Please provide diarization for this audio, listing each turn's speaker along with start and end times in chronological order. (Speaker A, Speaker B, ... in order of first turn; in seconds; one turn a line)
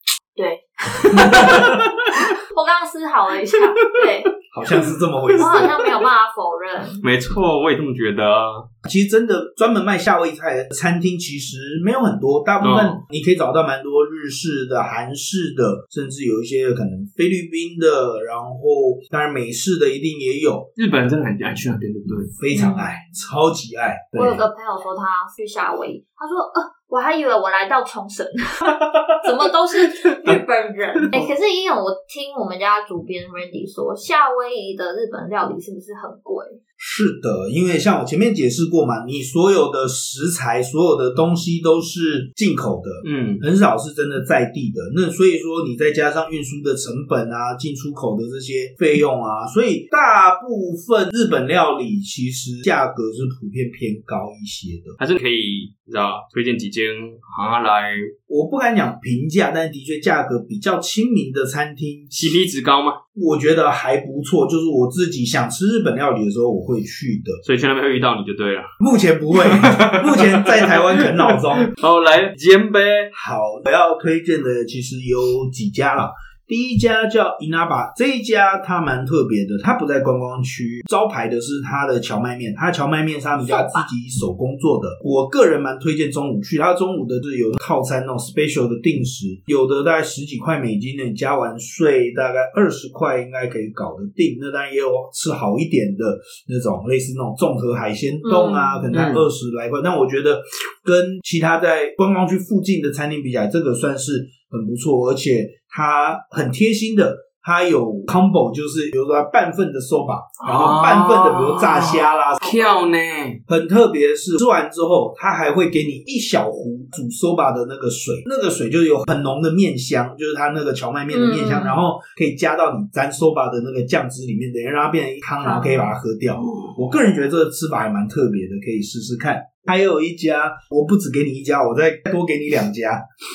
Speaker A: 0.3-4.3
Speaker B: 1.0-2.1
Speaker B: 3.5-5.9
Speaker C: 4.5-5.8
Speaker A: 5.3-7.0
Speaker B: 7.0-8.7
Speaker C: 8.8-20.7
Speaker B: 12.6-13.0
Speaker B: 20.8-22.3
Speaker C: 22.4-24.4
Speaker A: 22.5-23.0
Speaker A: 24.1-36.6
Speaker B: 28.6-29.2
Speaker B: 29.8-30.4
Speaker B: 30.9-31.3
Speaker C: 36.8-55.0
Speaker B: 43.0-43.4
Speaker B: 55.0-58.1
Speaker C: 58.3-62.4
Speaker B: 62.1-63.0
Speaker C: 63.1-67.4
Speaker B: 67.4-68.7
Speaker C: 68.8-71.7
Speaker B: 69.3-73.1
Speaker C: 73.1-112.5
Speaker A: 83.4-83.9
Speaker A: 98.2-98.9
Speaker B: 98.9-99.3
Speaker B: 110.4-113.4
Speaker A: 112.4-112.8
Speaker C: 113.5-133.0
Speaker A: 121.1-121.8
Speaker A: 125.4-126.0